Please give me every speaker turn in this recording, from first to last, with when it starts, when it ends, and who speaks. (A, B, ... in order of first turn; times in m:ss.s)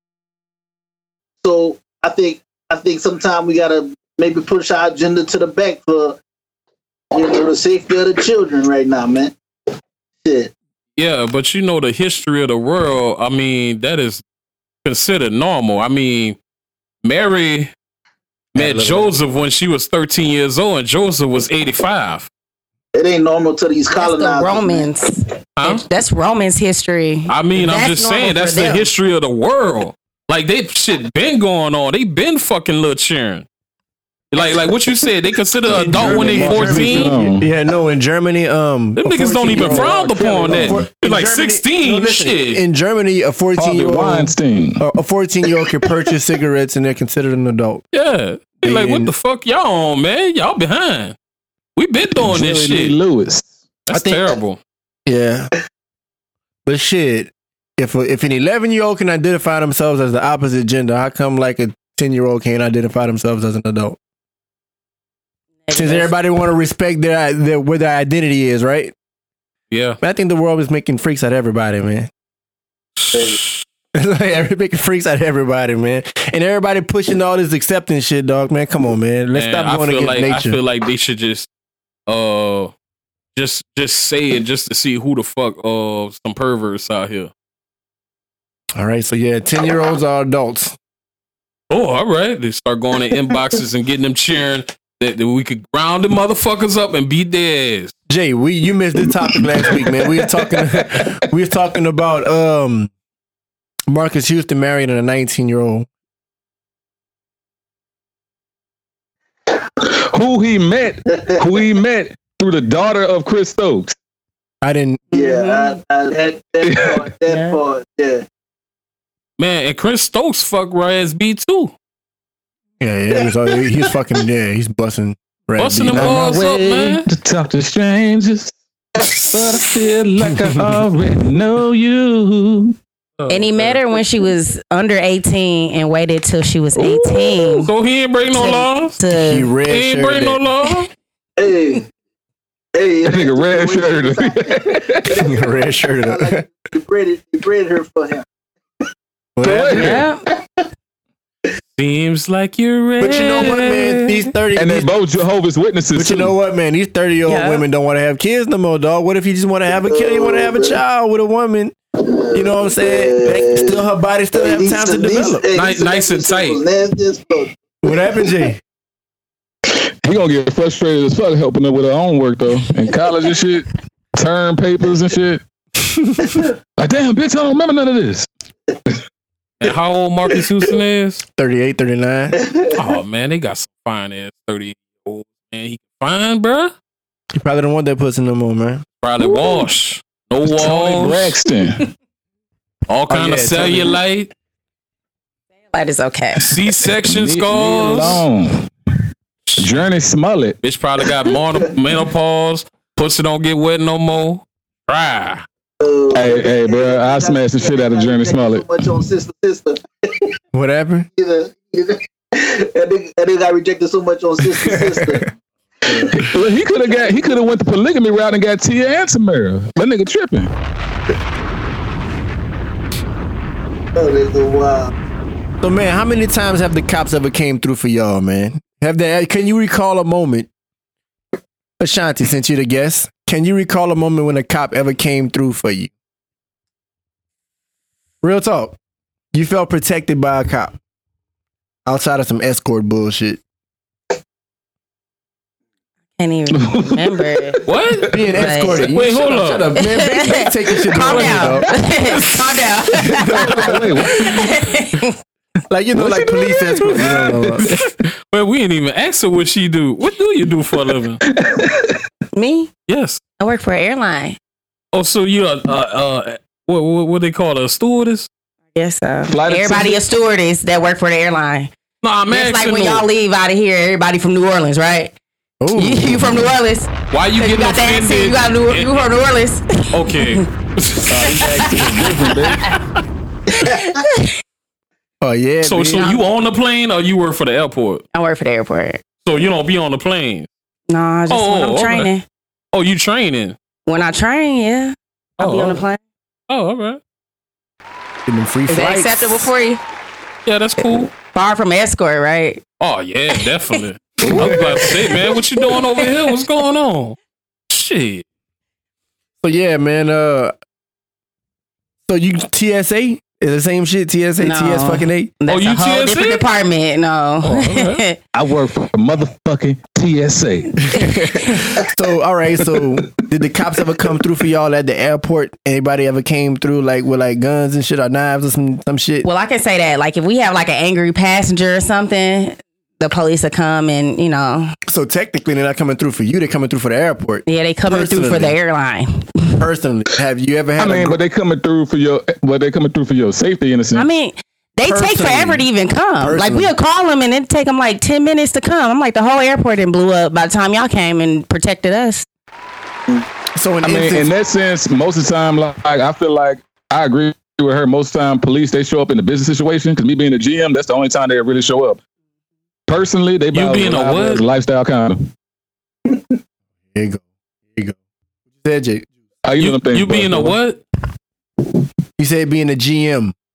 0:01.4-0:06.2 A
0:07.1-0:09.3 A
0:10.2-0:10.5 A
0:11.0-0:14.2 B
0:14.8-0:16.4 B
0:17.0-0:17.7 B
0:18.5-0:22.3 B
0:18.5-0:19.1 C
0:22.9-0:24.9 A
0:23.9-0:28.9 D
0:25.6-0:25.8 B
0:27.3-0:33.5 B
0:34.3-0:37.3 B
0:35.7-0:37.5 E
0:35.7-0:47.8 C
0:39.0-0:42.6 B
0:39.5-0:40.9 E
0:43.6-0:44.8 E
0:47.9-0:51.1 B
0:48.6-0:49.1 C
0:51.8-0:53.0 B
0:52.2-0:53.5 E
0:53.9-0:54.6 B
0:53.9-0:54.2 C
0:55.0-0:55.5 C
0:56.6-1:04.0 C
1:05.6-1:06.1 D
1:05.7-1:08.9 C
1:09.7-1:10.0 B
1:10.0-1:12.1 C
1:13.0-1:13.6 B
1:13.1-1:13.4 A
1:13.9-1:20.6 C
1:19.3-1:21.5 B
1:22.1-1:22.7 B
1:23.3-1:27.3 B
1:28.8-1:30.8 C
1:31.7-1:37.9 B
1:38.1-1:42.9 C
1:39.6-1:41.0 E
1:43.9-1:45.9 C
1:49.8-1:53.9 E
1:54.6-1:55.1 C
1:55.1-1:58.2 A
1:55.1-1:55.8 D
1:56.6-1:57.0 E
1:57.3-1:57.6 D
1:59.4-2:01.7 B
2:02.8-2:06.4 C
2:05.6-2:07.0 B
2:05.9-2:08.5 E
2:09.1-2:12.7 E
2:13.2-2:14.0 B
2:13.3-2:17.7 D
2:16.7-2:19.0 B
2:18.3-2:19.5 D
2:19.1-2:20.4 C
2:19.6-2:20.9 B
2:21.4-2:21.8 A
2:22.7-2:28.2 A
2:23.0-2:25.2 E
2:25.1-2:26.4 C
2:29.4-2:30.0 C
2:29.4-2:30.0 E
2:29.7-2:30.2 D
2:31.8-2:34.1 B
2:33.0-2:34.9 C
2:34.5-2:36.3 E
2:35.9-2:41.7 C
2:37.2-2:37.6 D
2:39.8-2:40.8 A
2:42.0-2:43.8 A
2:42.3-2:45.4 C
2:44.3-2:47.5 A
2:45.5-2:46.6 B
2:47.8-2:48.6 C
2:49.7-2:55.4 E
2:55.8-2:56.4 C
2:56.8-2:58.3 E
2:59.6-3:01.2 B
3:01.4-3:02.4 C
3:02.4-3:02.8 A
3:02.7-3:06.7 B
3:07.3-3:08.8 C
3:09.0-3:11.4 B
3:10.4-3:11.8 E
3:12.9-3:14.3 B
3:13.1-3:14.0 C
3:15.7-3:16.5 D
3:16.4-3:18.2 B
3:16.9-3:18.7 E
3:19.6-3:20.6 E
3:20.6-3:25.4 B
3:25.8-3:30.3 A
3:26.1-3:28.7 E
3:30.5-3:31.1 C
3:31.2-3:35.2 A
3:34.4-3:35.3 C
3:35.8-3:37.4 A
3:36.1-3:40.5 E
3:43.9-3:44.9 A
3:45.6-3:50.5 C
3:51.8-3:55.9 C
3:58.2-3:58.8 C
3:59.3-4:00.8 C
4:01.8-4:03.4 C
4:06.2-4:07.6 D
4:06.5-4:08.4 E
4:07.6-4:08.1 B
4:08.1-4:12.0 C
4:08.3-4:08.9 D
4:08.8-4:09.7 B
4:09.7-4:15.2 D
4:12.9-4:14.0 C
4:13.4-4:14.5 E
4:15.7-4:17.7 C
4:15.9-4:17.7 E
4:18.3-4:21.2 B
4:21.2-4:22.0 E
4:22.3-4:22.7 D
4:22.9-4:23.2 B
4:23.4-4:24.4 D
4:24.9-4:28.3 B
4:28.7-4:31.7 D
4:29.3-4:30.0 E
4:32.0-4:33.0 B
4:32.3-4:35.1 D
4:35.6-4:36.5 C
4:35.7-4:40.4 D
4:37.1-4:39.0 B
4:39.9-4:41.4 B
4:41.1-4:42.7 E
4:41.2-4:42.7 D
4:43.6-4:44.4 D
4:45.2-4:46.2 C
4:45.6-4:48.0 B
4:45.9-4:46.2 D
4:48.1-4:49.0 D
4:49.2-4:50.5 B
4:50.9-4:52.2 D
4:51.3-4:52.1 B
4:52.7-4:53.6 B
4:53.8-4:56.0 D
4:55.4-4:55.8 B
4:56.5-4:57.0 B
4:58.3-4:59.5 C
4:58.7-4:59.8 D
5:00.4-5:01.1 B
5:01.1-5:02.6 D
5:02.8-5:07.2 B
5:03.3-5:03.8 D
5:04.2-5:05.0 C
5:04.4-5:06.4 D
5:07.7-5:08.2 B
5:09.4-5:10.5 C
5:12.1-5:15.3 C
5:14.4-5:18.2 D
5:15.5-5:16.4 B
5:17.4-5:18.0 B
5:18.3-5:20.8 E
5:20.8-5:29.3 C
5:21.0-5:21.5 D
5:29.2-5:34.7 D
5:34.9-5:38.6 C
5:37.4-5:39.6 D
5:39.6-5:41.2 C
5:40.8-5:44.0 E
5:43.9-5:52.2 D
5:44.8-5:45.6 C
5:46.2-5:46.7 C
5:53.6-5:54.3 C
5:53.8-6:02.0 E
6:02.9-6:05.3 E
6:03.5-6:04.4 B
6:06.9-6:08.0 C
6:08.6-6:09.1 C
6:09.4-6:10.6 E
6:09.6-6:10.8 B
6:12.2-6:13.3 C